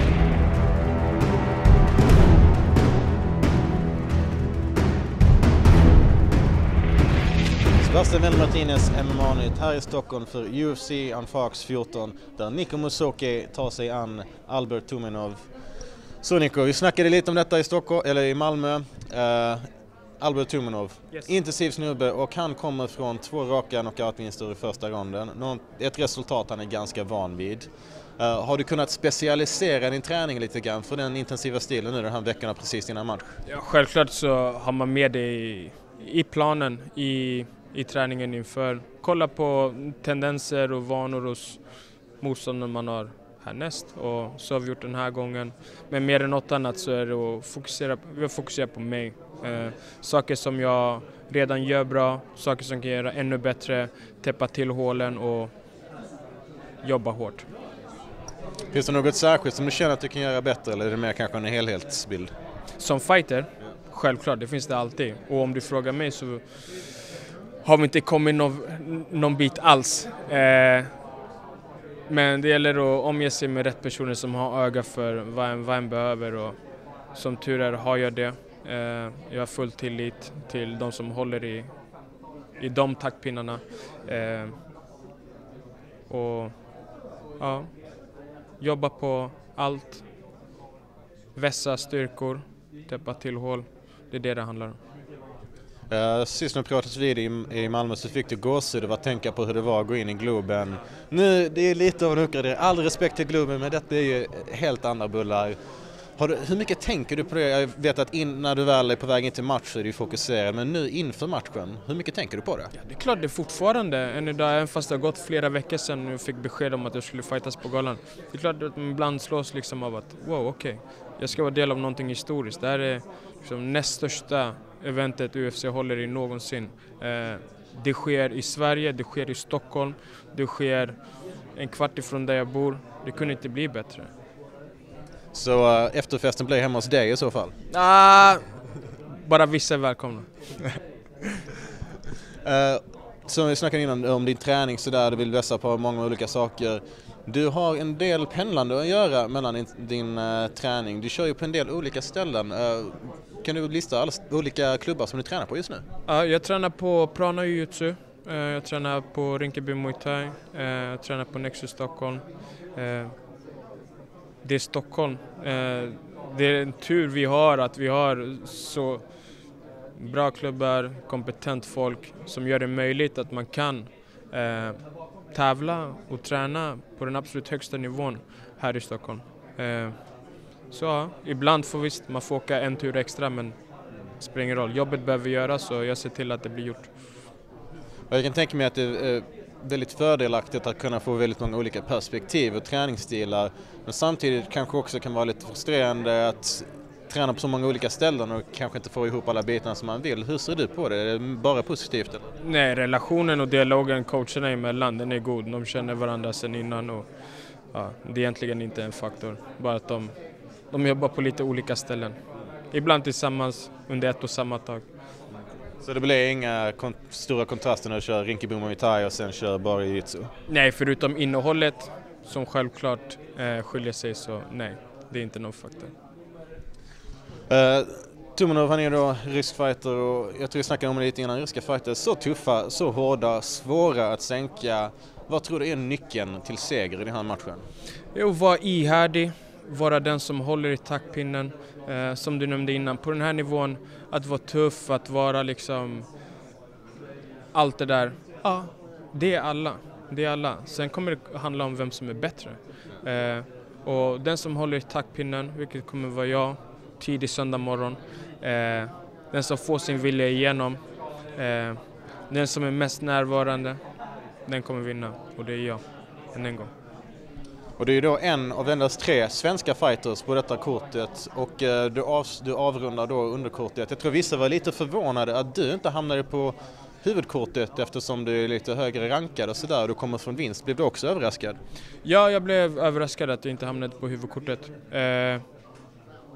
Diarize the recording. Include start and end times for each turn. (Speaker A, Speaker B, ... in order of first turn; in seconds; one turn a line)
Speaker A: 7.8-15.4
Speaker A: 16.2-19.6
Speaker A: 20.2-33.4
Speaker B: 33.5-55.5
Speaker B: 56.8-57.5
Speaker A: 58.7-62.3
Speaker B: 62.8-70.9
Speaker B: 72.1-81.7
Speaker B: 82.6-84.6
Speaker B: 86.1-86.7
Speaker B: 87.4-87.8
Speaker B: 88.6-90.0
Speaker B: 91.3-94.8
Speaker A: 95.9-105.6
Speaker A: 106.2-112.7
Speaker B: 112.8-134.1
Speaker A: 135.3-137.5
Speaker B: 137.7-140.7
Speaker A: 142.4-155.8
Speaker B: 156.1-163.1
Speaker B: 164.4-169.4
Speaker B: 169.9-180.1
Speaker B: 180.7-183.6
Speaker B: 184.2-186.9
Speaker A: 188.1-202.3
Speaker B: 202.4-207.1
Speaker B: 207.7-210.2
Speaker B: 210.7-212.2
Speaker B: 212.7-214.8
Speaker A: 215.8-220.3
Speaker B: 220.5-225.9
Speaker A: 227.5-237.6
Speaker B: 238.1-246.1
Speaker B: 247.5-263.8
Speaker B: 264.4-266.7
Speaker A: 267.8-281.6
Speaker B: 282.0-285.4